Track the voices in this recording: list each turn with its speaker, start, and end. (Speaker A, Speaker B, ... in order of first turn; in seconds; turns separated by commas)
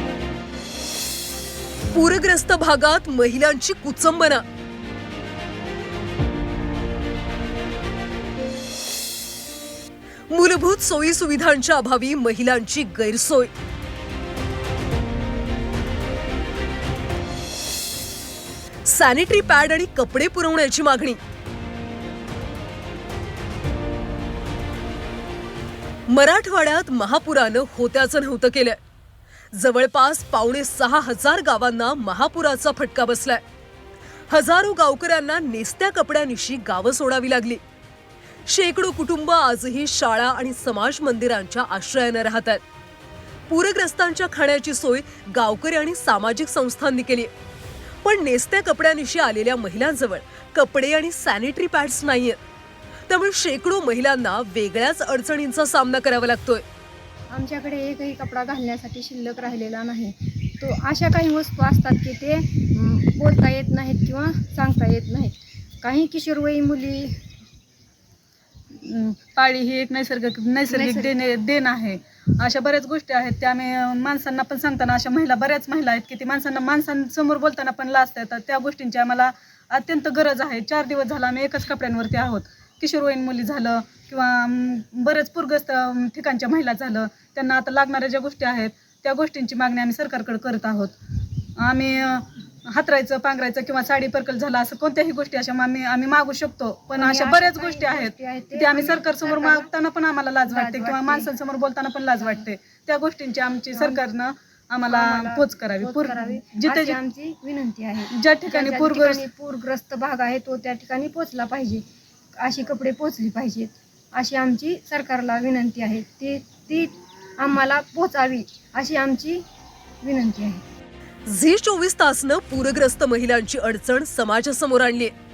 Speaker A: 1.9-4.4, Speaker A: 10.3-13.5, Speaker A: 18.9-21.2, Speaker A: 26.1-28.8, Speaker A: 29.5-33.4, Speaker A: 34.3-37.6, Speaker A: 38.5-42.6, Speaker A: 43.5-47.3, Speaker A: 48.0-52.4, Speaker A: 53.1-56.6, Speaker B: 57.3-67.2, Speaker C: 68.8-90.9, Speaker B: 70.7-71.2, Speaker C: 91.6-107.0, Speaker B: 96.9-99.7, Speaker B: 100.4-101.3, Speaker B: 102.2-102.5, Speaker B: 103.8-104.0, Speaker B: 104.8-111.8, Speaker C: 108.1-109.3, Speaker B: 112.4-119.4, Speaker B: 120.0-120.6, Speaker A: 121.3-125.1